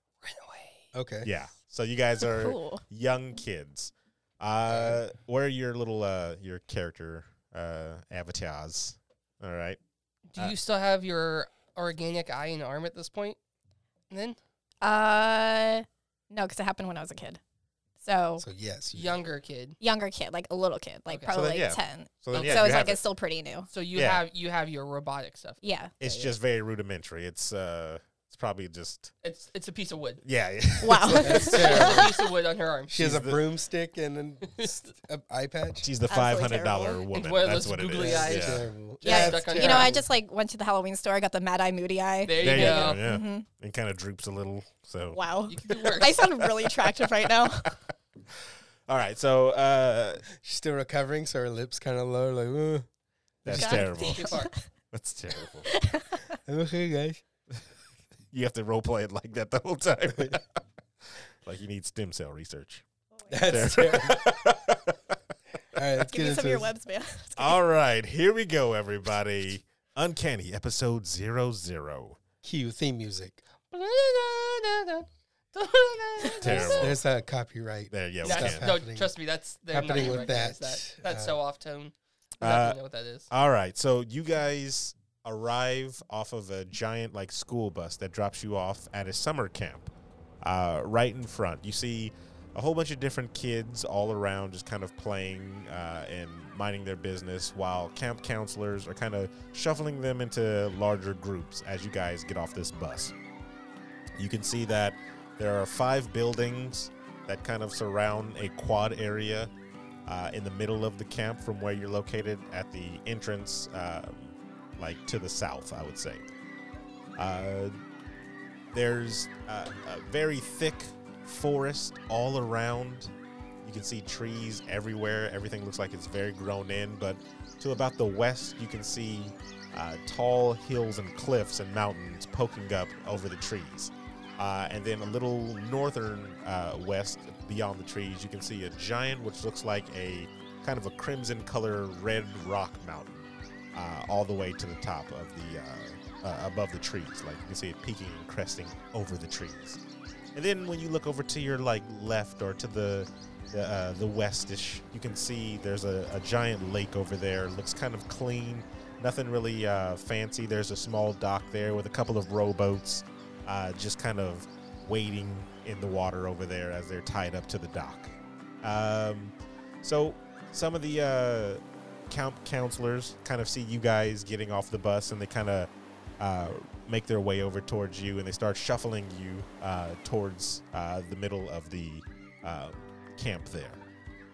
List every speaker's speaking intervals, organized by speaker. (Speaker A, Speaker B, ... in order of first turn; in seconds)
Speaker A: 0.2-0.9, 10.3-13.4, 14.1-14.4, 18.9-19.8, 21.1-21.4, 22.3-22.7, 23.7-26.4, 29.2-30.2, 31.4-33.0, 34.5-34.8, 37.1-40.0, 42.2-43.0, 45.5-46.2, 53.6-54.5, 73.7-77.0, 78.2-83.3
Speaker B: 0.9-1.3, 4.6-5.0, 18.4-19.2, 31.2-32.2, 32.9-35.9, 38.0-40.0, 50.4-52.9, 53.5-53.8, 56.5-57.2, 63.3-64.2, 65.7-66.7, 72.4-73.4, 76.8-79.2, 79.7-81.4
Speaker C: 1.2-9.8, 21.3-23.0, 23.9-24.2, 26.0-29.1, 30.2-31.9, 32.9-33.4, 35.8-38.7, 42.4-47.7, 48.4-50.3, 53.4-54.4, 54.9-55.7, 58.3-60.5, 61.4-62.8, 63.5-65.2, 67.4-72.2, 76.4-77.0, 77.9-78.7, 82.4-82.8, 83.3-89.9, 90.4-103.1, 104.2-109.5, 110.0-116.3, 117.2-117.7, 118.7-149.8, 150.3-183.8
Speaker D: 2.2-2.8, 14.8-17.4, 18.0-18.4, 19.8-23.7, 25.6-25.9, 30.8-31.9, 36.1-37.0, 39.0-43.5, 45.1-47.8, 53.5-54.7, 55.6-56.4, 63.2-63.6, 66.0-67.6, 76.2-76.8